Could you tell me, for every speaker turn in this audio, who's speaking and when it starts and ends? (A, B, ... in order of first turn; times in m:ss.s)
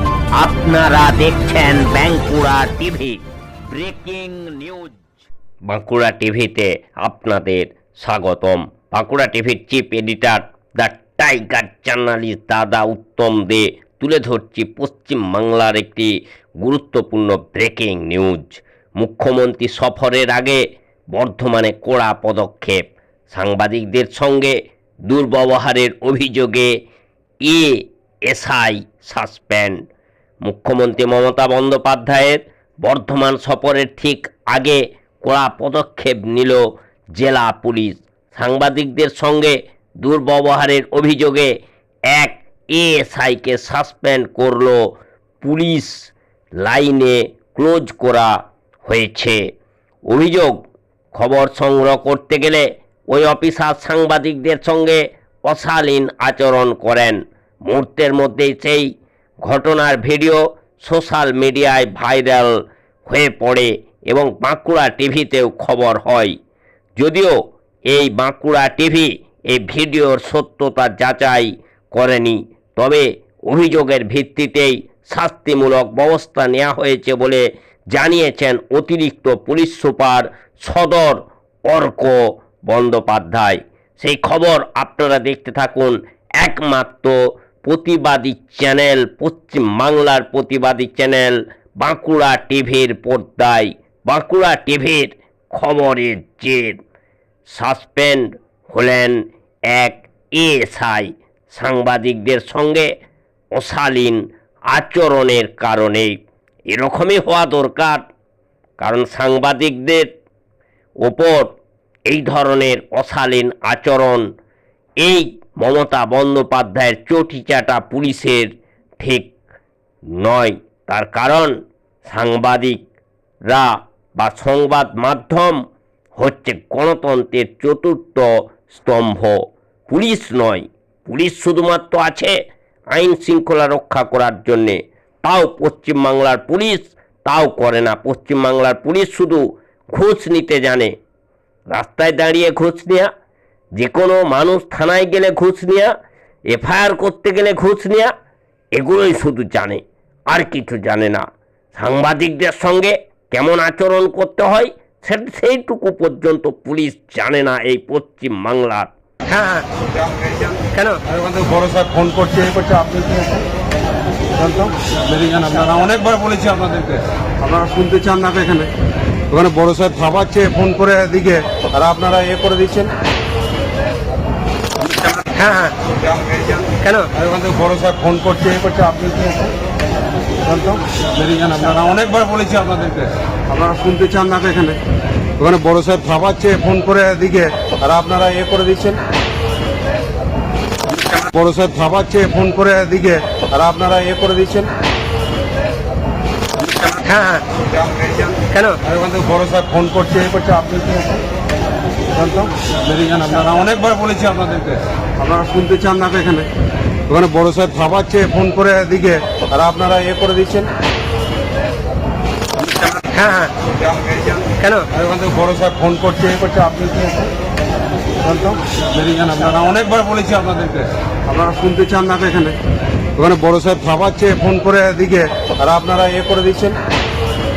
0:00.4-0:05.1 A
0:05.7-0:20.6 A
0:21.1-0:24.6 A
0:25.1-0:26.7 A
0:27.4-0:29.8 A
0:30.4-0:41.5 A
0:42.1-0:44.8 A
0:45.4-0:49.4 A
0:50.1-0:50.6 A
0:51.1-0:58.9 A
0:59.4-1:02.5 A
1:03.0-1:06.4 A
1:07.0-1:07.3 A
1:07.9-1:36.8 A
1:37.5-1:39.2 A
1:39.7-1:42.9 A
1:43.6-1:44.2 A
1:44.7-1:46.1 A
1:46.7-1:48.0 A
1:48.8-1:50.1 A
1:51.0-1:51.5 A
1:52.1-1:54.2 A
1:55.0-1:59.3 A
2:00.2-2:01.5 A
2:02.0-2:02.8 A
2:03.5-2:05.6 A
2:06.2-2:12.4 A
2:12.9-2:20.9 A
2:21.7-2:23.1 A
2:23.8-2:25.9 A
2:26.5-2:28.1 A
2:28.8-2:38.9 A
2:39.3-2:39.7 B
2:40.6-2:41.0 B
2:41.0-2:43.4 C
2:44.4-2:48.7 C
2:49.3-2:52.9 C
2:55.2-2:55.7 B
2:56.2-2:56.5 C
2:56.7-2:57.1 B
2:57.1-2:59.5 C
3:00.4-3:04.8 C
3:05.4-3:09.0 C
3:11.1-3:14.7 C
3:16.9-3:17.4 B
3:18.4-3:18.8 B
3:18.8-3:21.2 C
3:22.1-3:26.5 C
3:27.1-3:30.7 C
3:33.0-3:33.5 B
3:34.5-3:34.9 B
3:34.9-3:37.3 C
3:38.2-3:42.6 C
3:43.2-3:46.8 C